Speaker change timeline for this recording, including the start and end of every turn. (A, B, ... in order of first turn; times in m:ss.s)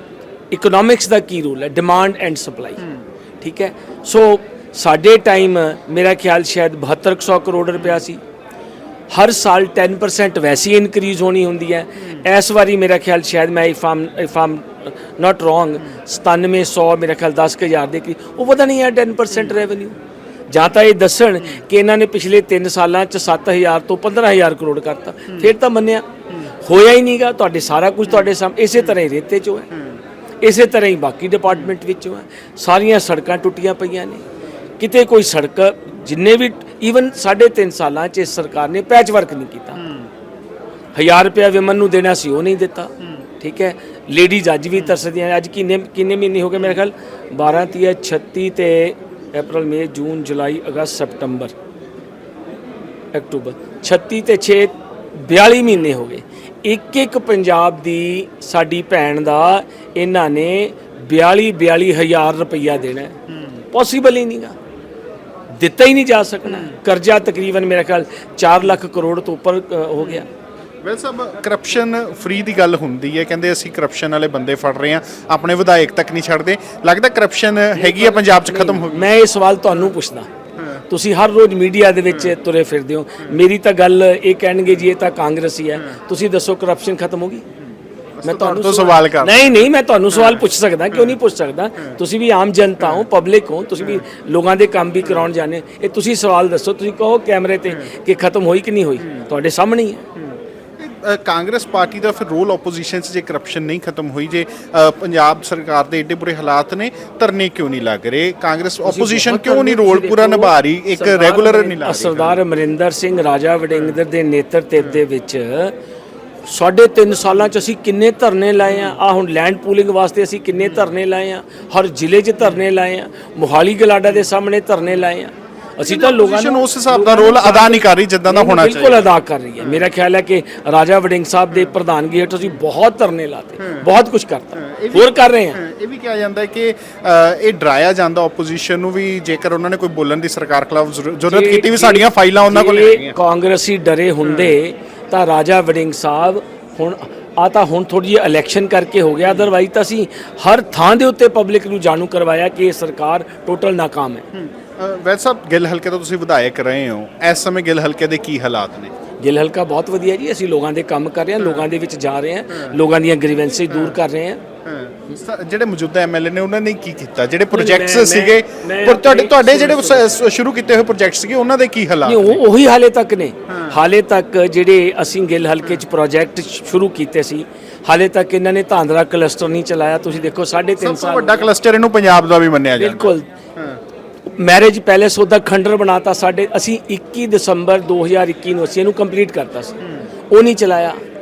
0:00.5-0:02.8 A
0:02.8-0:03.0 B
0:03.4-0:08.2 A
0:07.7-0:08.0 B
0:09.1-0:20.0 A
0:12.0-0:12.3 B
0:19.3-0:19.6 B
0:20.5-0:29.7 A
0:25.3-0:25.5 B
0:28.1-0:29.0 B
0:29.7-0:30.0 B
0:30.4-0:34.2 A
0:31.5-0:31.7 B
0:34.8-0:39.8 A
0:39.7-0:40.1 B
0:41.0-0:51.6 A
0:43.0-0:43.3 B
0:44.8-0:45.0 B
0:53.1-1:03.2 A
0:55.7-0:55.9 B
1:03.3-1:03.6 B
1:03.7-1:04.6 A
1:05.6-1:10.3 A
1:06.5-1:06.8 B
1:10.0-1:10.2 B
1:10.8-1:19.1 B
1:17.8-1:20.3 A
1:19.7-1:20.0 B
1:20.6-1:20.8 B
1:20.9-1:27.4 A
1:22.1-1:22.4 B
1:27.6-1:31.2 B
1:28.2-1:40.1 A
1:32.8-1:33.1 B
1:33.8-1:34.0 B
1:35.0-1:35.3 B
1:39.0-1:39.3 B
1:40.2-1:52.4 B
1:48.8-1:55.8 A
1:53.7-1:54.0 B
1:54.8-1:55.0 B
1:56.5-2:15.6 A
1:58.6-1:59.0 B
2:00.6-2:00.9 B
2:05.8-2:09.9 B
2:13.6-2:13.9 B
2:14.5-2:23.2 B
2:21.3-2:34.3 A
2:24.2-2:24.6 B
2:29.2-2:29.5 B
2:34.3-2:38.9 B
2:39.2-2:44.4 A
2:41.4-2:41.7 B
2:42.5-2:42.8 B
2:43.7-2:44.0 B
2:44.6-2:52.4 B
2:47.5-2:50.1 A
2:52.0-3:01.5 A
2:53.5-2:53.8 B
3:00.1-3:03.8 B
3:02.8-3:03.3 A
3:04.3-3:09.8 A
3:09.8-3:10.1 B
3:10.3-3:11.0 A